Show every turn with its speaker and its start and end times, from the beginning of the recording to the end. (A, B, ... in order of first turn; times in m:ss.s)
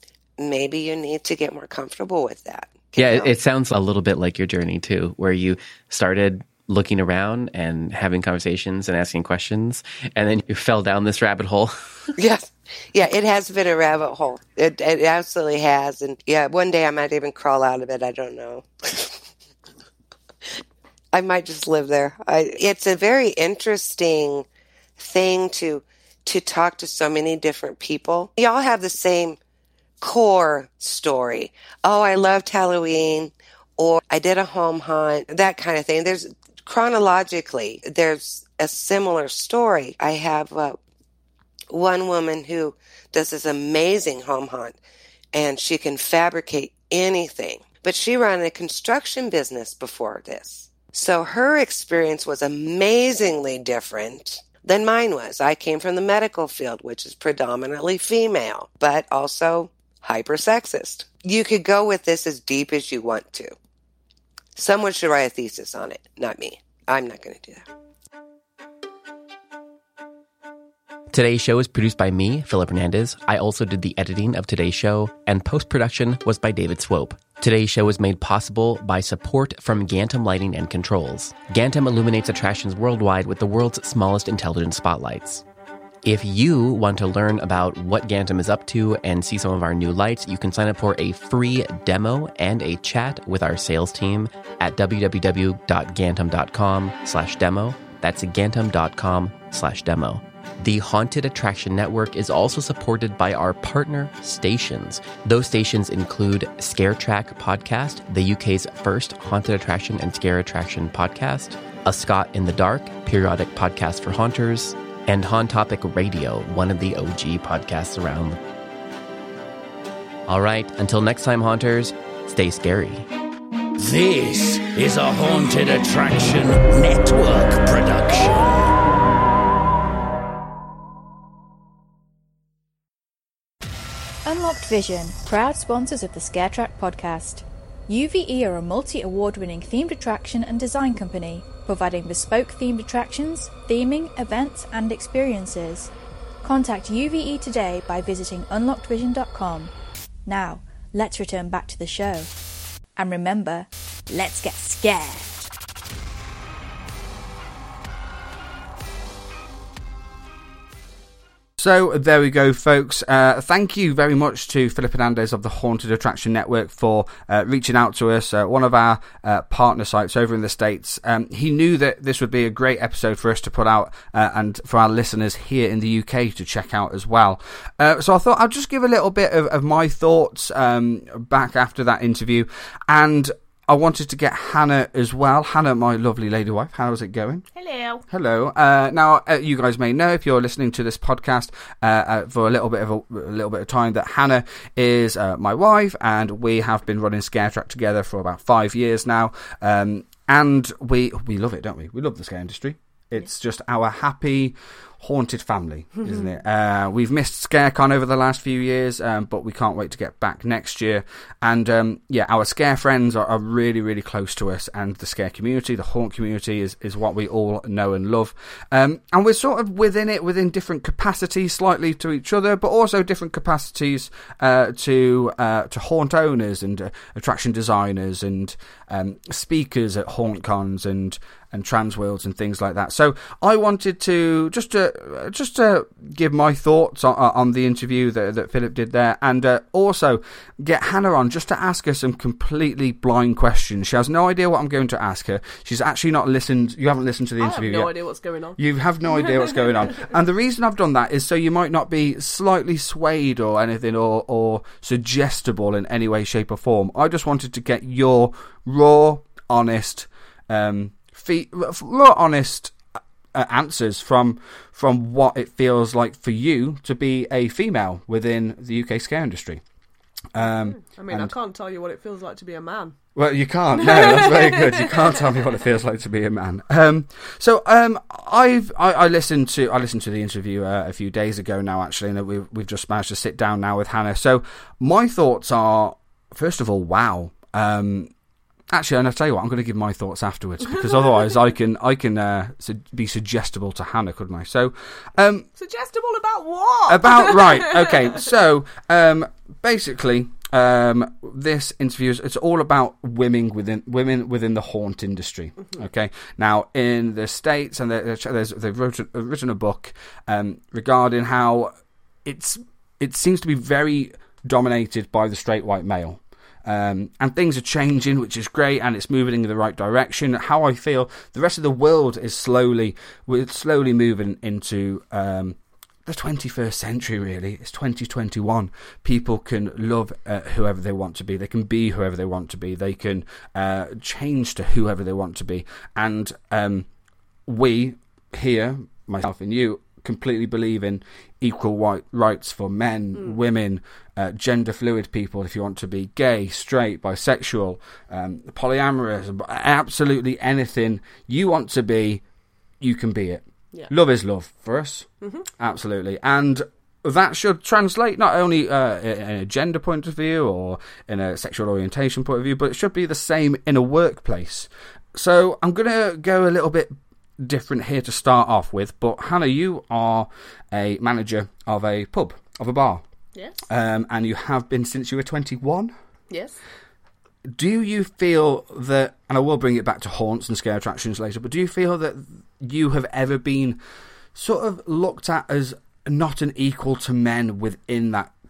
0:00.4-0:03.3 A
0:03.0-0:12.1 B
0:12.2-0:19.2 A
0:21.1-0:24.4 A
0:25.0-0:29.4 A
0:30.0-0:40.8 A
0:41.7-0:44.8 A
0:45.3-1:03.5 A
1:04.6-1:07.7 A
1:11.1-1:25.4 B
1:26.0-1:58.4 B
2:00.3-2:03.0 B
2:03.8-2:08.6 C
2:14.2-2:25.9 D
2:26.4-2:29.7 D
2:30.2-2:32.3 D
2:33.0-2:35.5 D
2:41.6-3:07.5 E
3:07.5-3:08.0 F
3:08.1-4:07.9 E
4:07.4-4:08.6 F
4:08.6-4:22.8 E
4:23.3-4:29.6 E
4:30.3-4:31.3 E
4:30.4-4:33.0 F
4:33.1-4:48.1 E
4:33.8-4:35.2 F
4:48.7-4:55.5 E
4:55.6-4:58.1 F
4:56.9-5:11.7 E
5:12.2-5:36.9 E
5:37.5-5:52.2 E
5:52.8-6:13.0 E
6:13.6-6:15.9 E
6:16.3-6:16.6 F
6:17.5-6:23.8 E
6:24.3-6:28.3 E